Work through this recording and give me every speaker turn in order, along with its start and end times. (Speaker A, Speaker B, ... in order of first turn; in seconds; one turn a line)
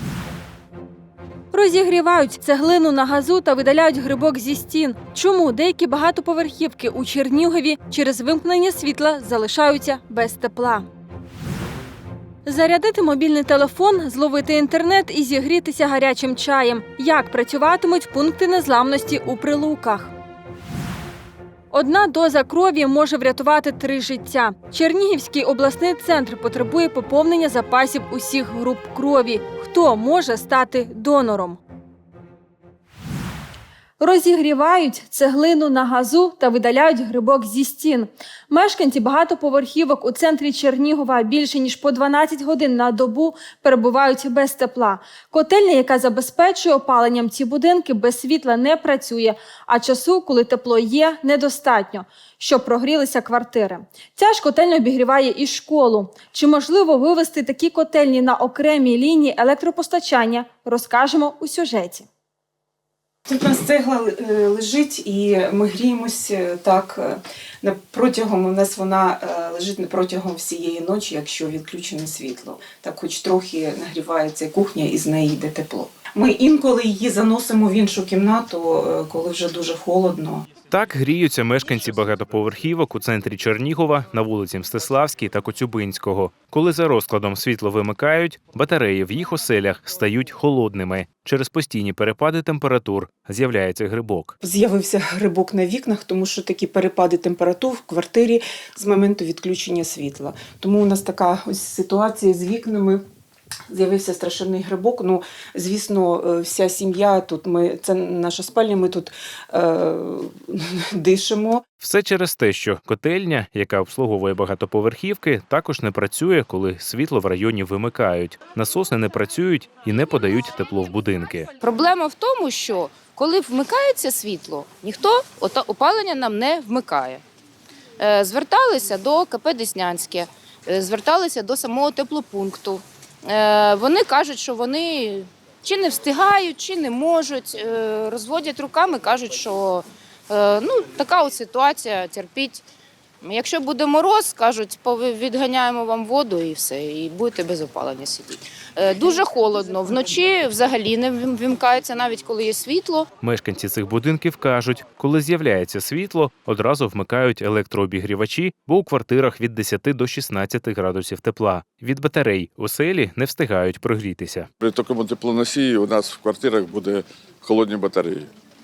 Speaker A: 1.5-10.9
Speaker A: 12.4-20.1
Speaker A: 21.7-31.6
Speaker A: 34.0-62.1
Speaker B: 63.3-80.5
Speaker C: 80.7-94.3
Speaker B: 94.4-103.0
Speaker B: 103.7-111.6
Speaker C: 111.8-121.5
Speaker D: 121.6-127.2
Speaker D: 128.0-142.6
Speaker D: 143.2-153.1
Speaker C: 153.2-164.5
Speaker E: 164.6-168.3